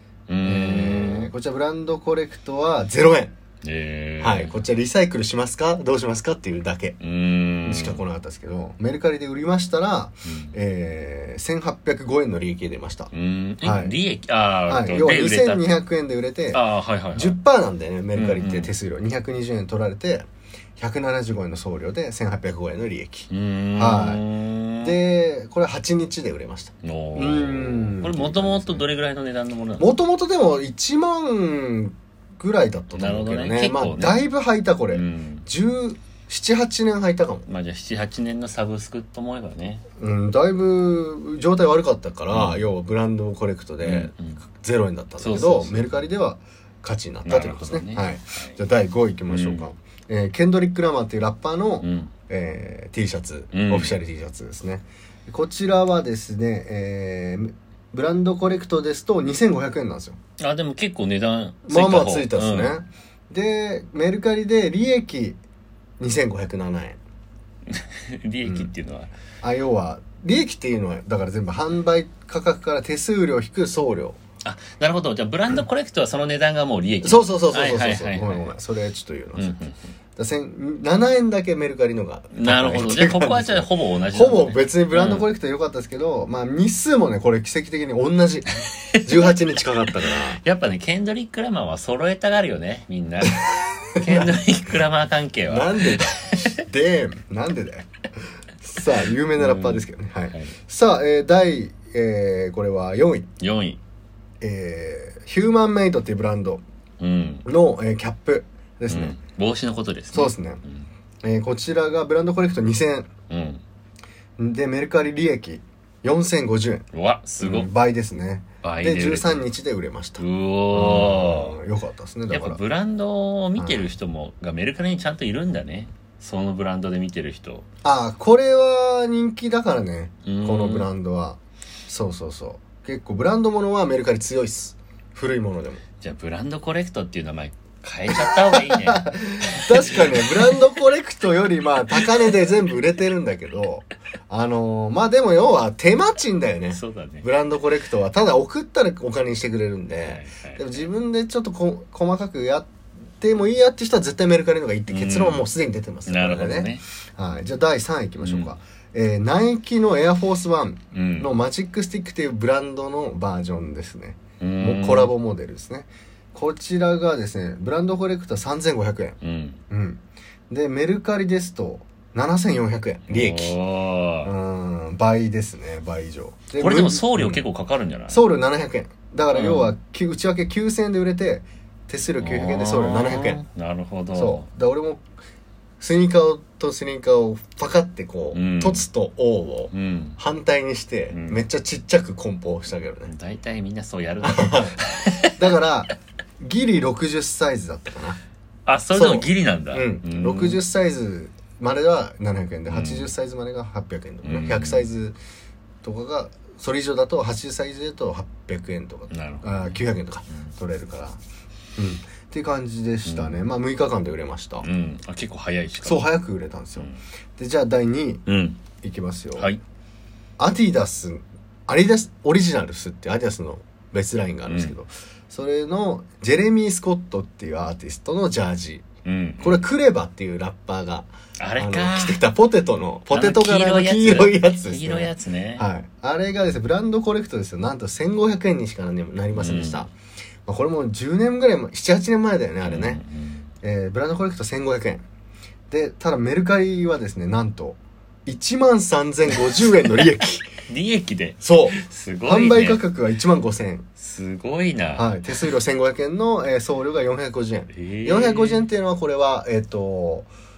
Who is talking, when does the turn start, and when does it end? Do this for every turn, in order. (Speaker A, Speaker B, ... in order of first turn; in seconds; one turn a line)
Speaker A: 0.3-1.3
Speaker B: 0.4-3.4
Speaker A: 3.6-4.6
Speaker B: 4.2-7.0
Speaker A: 7.0-8.0
Speaker B: 7.7-13.1
Speaker A: 10.3-10.6
Speaker A: 13.1-15.7
Speaker B: 13.6-13.9
Speaker B: 14.7-24.2
Speaker A: 16.5-17.4
Speaker A: 18.1-18.7
Speaker A: 23.3-24.9
Speaker B: 24.8-28.8
Speaker A: 26.8-29.9
Speaker B: 29.8-37.5
Speaker A: 32.9-34.2
Speaker A: 34.9-35.5
Speaker A: 37.5-39.8
Speaker B: 40.0-60.2
Speaker A: 42.3-42.7
Speaker A: 43.8-44.4
Speaker A: 45.2-46.1
Speaker A: 47.2-48.6
Speaker A: 49.3-49.7
Speaker A: 51.8-52.1
Speaker A: 53.5-54.0
Speaker A: 60.4-62.7
Speaker B: 61.7-65.4
Speaker B: 66.0-67.0
Speaker A: 67.7-69.1
Speaker B: 69.4-74.2
Speaker A: 74.5-78.5
Speaker B: 77.0-79.6
Speaker A: 79.4-79.8
Speaker B: 80.2-90.4
Speaker A: 82.3-85.3
Speaker A: 88.9-89.3
Speaker A: 90.0-96.6
Speaker B: 94.0-94.4
Speaker B: 95.5-97.9
Speaker B: 98.6-103.3
Speaker A: 99.4-100.5
Speaker A: 103.4-103.8
Speaker B: 104.4-106.6
Speaker A: 107.0-107.5
Speaker B: 107.5-109.2
Speaker A: 108.9-110.9
Speaker B: 110.1-110.6
Speaker B: 111.2-113.1
Speaker A: 113.3-113.6
Speaker B: 114.4-116.9
Speaker A: 116.9-117.7
Speaker B: 117.4-122.6
Speaker A: 118.6-119.4
Speaker A: 120.2-121.6
Speaker A: 122.3-127.7
Speaker B: 123.6-123.9
Speaker B: 127.8-135.8
Speaker A: 130.3-130.9
Speaker A: 136.0-140.5
Speaker B: 138.1-152.7
Speaker A: 146.8-147.2
Speaker A: 150.0-150.9
Speaker B: 153.2-169.2
Speaker A: 154.9-155.4
Speaker A: 156.1-156.8
Speaker A: 158.2-158.5
Speaker A: 160.9-161.3
Speaker A: 164.4-165.1
Speaker A: 169.2-169.6
Speaker B: 169.7-173.6
Speaker A: 173.1-174.3
Speaker B: 174.2-177.4
Speaker A: 176.6-178.2
Speaker B: 178.1-183.4
Speaker A: 179.3-179.8
Speaker A: 182.2-184.5
Speaker B: 184.1-185.0
Speaker B: 185.8-193.1
Speaker A: 188.3-188.8
Speaker A: 189.7-190.2
Speaker A: 191.1-191.5
Speaker A: 193.1-195.4
Speaker B: 194.2-194.8
Speaker B: 195.3-198.2
Speaker A: 198.7-200.6
Speaker B: 198.9-205.2
Speaker A: 202.7-203.1
Speaker A: 204.2-204.9
Speaker B: 205.8-211.2
Speaker A: 209.1-210.5
Speaker B: 211.8-214.7
Speaker A: 213.1-213.4
Speaker A: 214.6-216.1
Speaker B: 215.8-218.2
Speaker A: 218.3-218.6
Speaker B: 218.8-219.5
Speaker B: 220.4-228.8
Speaker A: 224.5-224.8
Speaker A: 229.1-229.7
Speaker B: 229.4-239.9
Speaker A: 231.4-232.2
Speaker A: 233.1-235.7
Speaker A: 239.3-239.9
Speaker B: 240.5-243.0
Speaker A: 242.7-243.4
Speaker B: 243.6-245.1
Speaker B: 245.7-250.5
Speaker A: 250.7-252.8
Speaker B: 251.4-253.9
Speaker A: 254.0-255.1
Speaker B: 255.0-260.3
Speaker A: 257.7-258.7